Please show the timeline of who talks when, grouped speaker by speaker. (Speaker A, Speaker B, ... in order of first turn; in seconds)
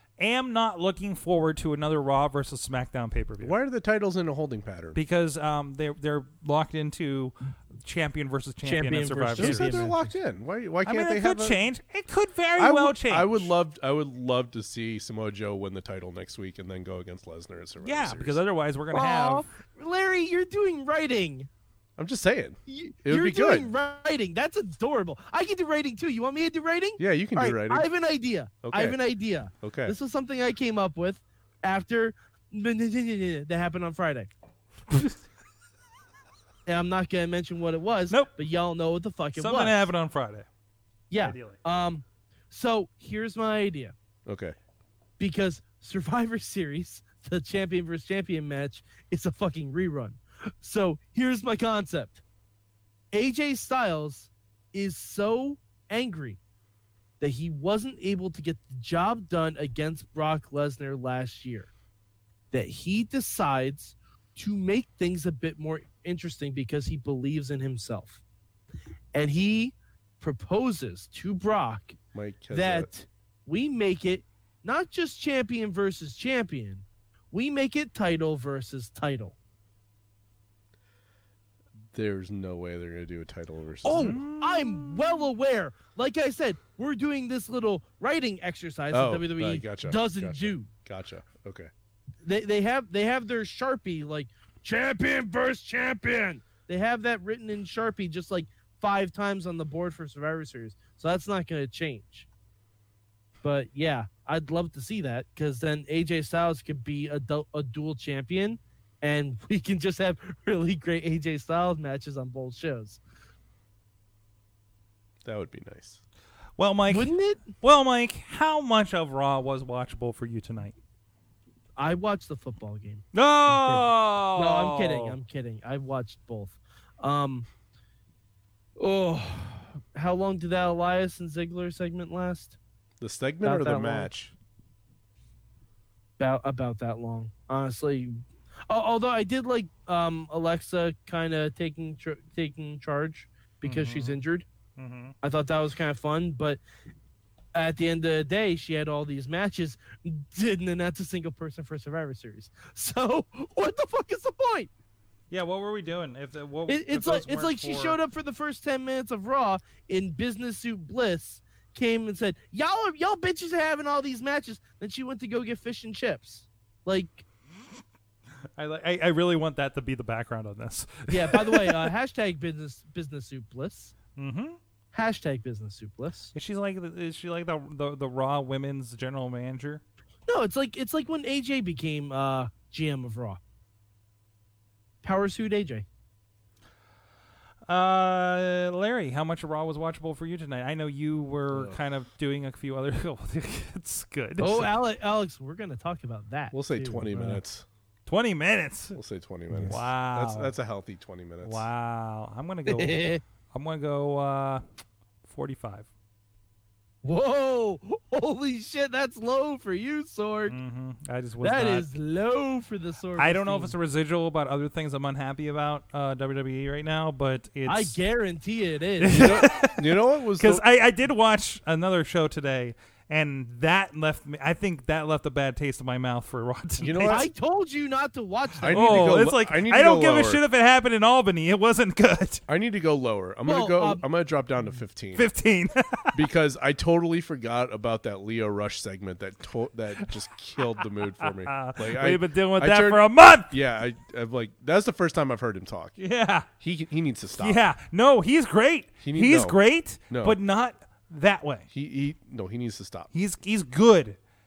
Speaker A: 0.2-3.6, 5.0-9.8, 10.8-13.5, 17.8-19.5, 39.4-40.5, 41.2-41.6, 83.9-85.2, 116.6-120.8, 123.1-125.2, 143.6-144.2, 144.8-145.2, 155.3-158.0, 168.6-171.9, 174.2-174.6, 176.3-179.8, 187.7-194.7, 198.1-199.0, 199.6-200.5, 201.4-204.6, 205.2-205.9, 210.5-211.9, 213.2-218.0, 219.0-227.3, 228.7-232.4, 235.2-236.2, 240.6-243.5, 246.0-246.5, 247.4-251.7, 253.1-254.2
Speaker B: 3.4-5.0, 9.4-11.6, 12.6-18.4, 22.0-23.7, 27.0-27.9, 28.6-29.0, 29.6-29.9, 44.3-44.5, 72.1-72.9, 81.9-84.2, 88.9-91.7, 115.2-116.0, 133.0-134.3, 191.5-191.8, 196.5-197.7, 198.9-201.7, 219.1-220.6, 226.8-227.3, 228.6-230.4, 232.5-235.3, 236.1-246.0, 246.6-247.6, 249.0-249.6, 250.1-250.4, 251.7-253.1
Speaker C: 8.6-10.1, 18.9-21.5, 22.7-34.3, 36.7-39.9, 41.1-44.0, 45.2-52.2, 53.1-56.4, 57.2-61.7, 62.5-68.2, 69.1-72.0, 72.5-79.4, 83.8-90.7, 92.2-102.3, 103.4-113.0, 116.9-117.5, 121.8-127.5, 128.8-132.6, 133.4-134.1, 136.2-144.5, 145.2-146.6, 147.5-154.7, 156.7-167.3, 171.1-173.9, 174.9-176.3, 180.3-183.4, 185.0-185.9, 194.4-197.4, 202.7-203.2, 207.0-210.6, 211.4-213.7, 217.7-219.4, 227.0-229.1, 233.5-234.0